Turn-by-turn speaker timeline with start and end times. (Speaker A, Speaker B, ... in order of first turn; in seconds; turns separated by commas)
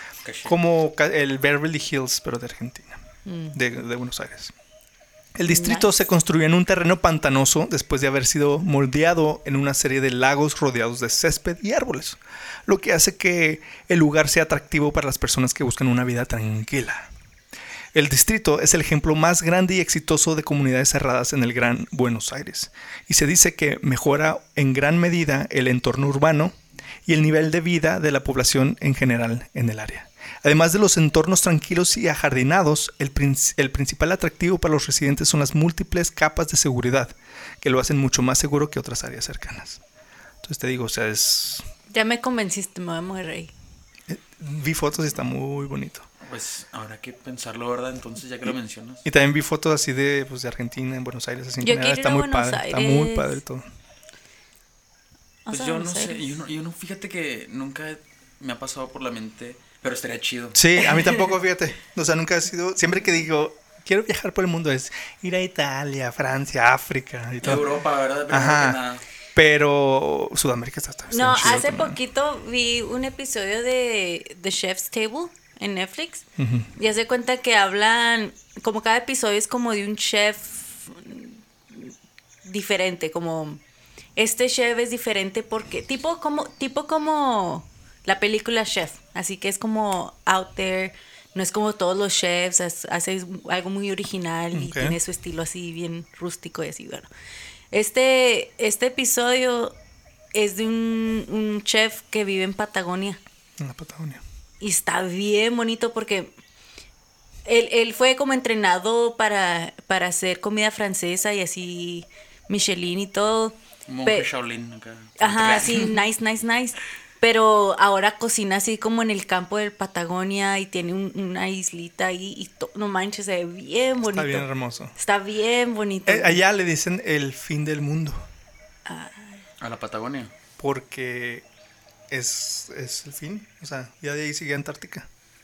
Speaker A: 0.2-0.6, Speaker B: 0.5-3.0, Speaker C: 3.2-3.5, Speaker B: 3.5-4.5, Speaker B: 5.3-17.1, Speaker C: 5.5-6.0, Speaker B: 17.9-39.8, Speaker B: 40.4-41.6, Speaker C: 41.9-43.5, Speaker B: 44.1-46.1, Speaker A: 46.2-49.0, Speaker B: 49.0-53.6, Speaker C: 51.6-53.4, Speaker C: 55.4-56.3, Speaker A: 55.5-60.9, Speaker B: 60.5-67.7, Speaker A: 67.4-69.0, Speaker B: 68.3-68.8, Speaker B: 69.3-72.0, Speaker C: 71.1-76.2, Speaker B: 76.4-76.7, Speaker C: 76.8-81.9, Speaker C: 82.4-83.6, Speaker C: 84.2-97.1, Speaker B: 94.5-95.0, Speaker C: 97.7-99.8, Speaker C: 100.3-103.2, Speaker B: 103.6-104.2, Speaker C: 104.6-106.3, Speaker C: 107.4-114.3, Speaker A: 113.9-116.0, Speaker C: 115.2-126.4, Speaker B: 124.1-124.9, Speaker B: 126.0-128.2, Speaker C: 128.8-129.4, Speaker A: 129.6-130.3, Speaker B: 130.6-131.4, Speaker B: 132.1-135.1